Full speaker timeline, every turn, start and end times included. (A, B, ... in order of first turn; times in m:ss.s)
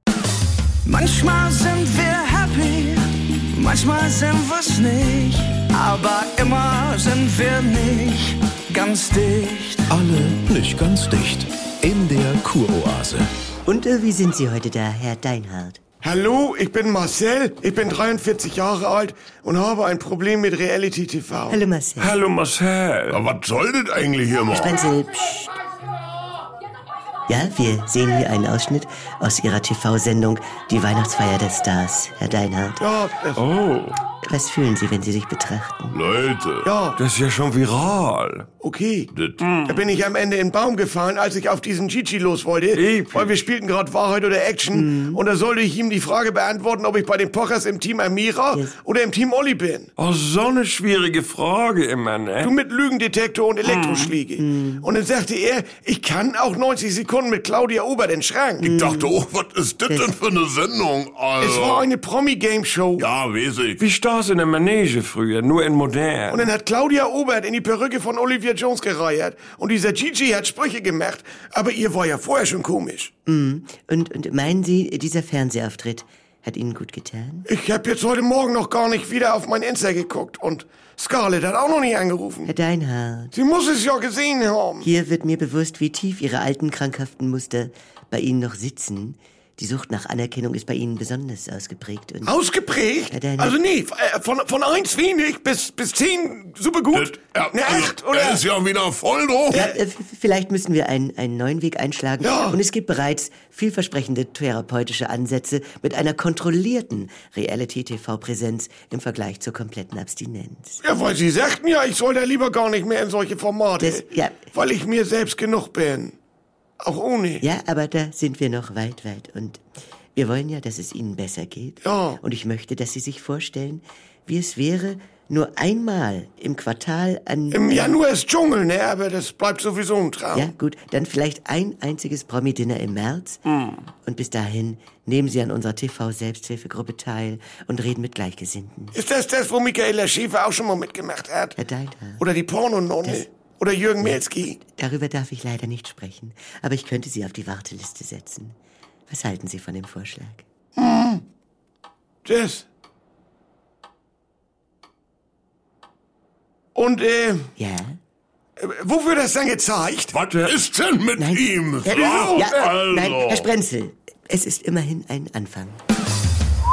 0:00.8-0:09.9 A
0:09.9-0:13.3 B
0:13.6-0:15.8 C
0:16.0-0:21.6 D
0:21.5-0:22.2 C
0:22.0-0:23.2 E
0:23.1-0:24.8 F
0:24.5-0:25.6 C
0:27.3-0:32.8 C
0:32.8-0:33.4 D
0:33.4-0:34.0 E
0:34.2-0:36.0 C
0:35.9-0:36.7 F
0:36.6-0:37.0 D
0:37.0-0:38.5 E
0:38.6-0:39.1 D
0:39.1-0:39.4 F
0:39.4-0:39.9 E
0:39.6-0:49.9 D
0:42.7-0:43.4 E
0:44.7-0:45.2 C
0:50.0-0:52.5 E
0:52.4-0:58.8 D
0:53.7-0:54.2 E
0:54.4-0:54.9 C
0:58.6-0:59.2 C
0:58.6-1:01.9 F
0:59.9-1:00.2 C
1:01.4-1:03.1 D
1:03.0-1:03.8 F
1:03.8-1:06.5 E
1:06.3-1:13.1 D
1:13.3-1:17.5 C
1:17.5-1:22.5 D
1:22.5-1:23.3 C
1:23.3-1:24.9 D
1:24.8-1:32.3 C
1:32.3-1:38.5 D
1:33.1-1:33.6 C
1:36.9-1:39.6 F
1:39.5-1:50.8 C
1:42.2-1:42.6 D
1:50.8-1:56.2 D
1:53.8-1:54.5 C
1:56.8-1:57.4 D
1:57.4-1:59.6 C
2:00.2-2:08.0 C
2:01.8-2:02.2 D
2:07.5-2:10.5 D
2:10.3-2:13.4 C
2:13.5-2:13.8 E
2:14.0-2:19.0 C
2:18.9-2:21.6 D
2:21.6-2:22.2 C
2:22.2-2:24.6 D
2:24.0-2:28.6 C
2:29.1-2:30.4 C
2:30.8-2:31.2 D
2:32.2-2:32.7 D
2:36.8-2:37.5 D
2:37.6-2:38.0 C
2:38.6-2:40.1 D
2:40.1-2:43.5 F
2:40.2-2:40.5 E
2:41.2-2:45.8 C
2:42.2-2:42.6 D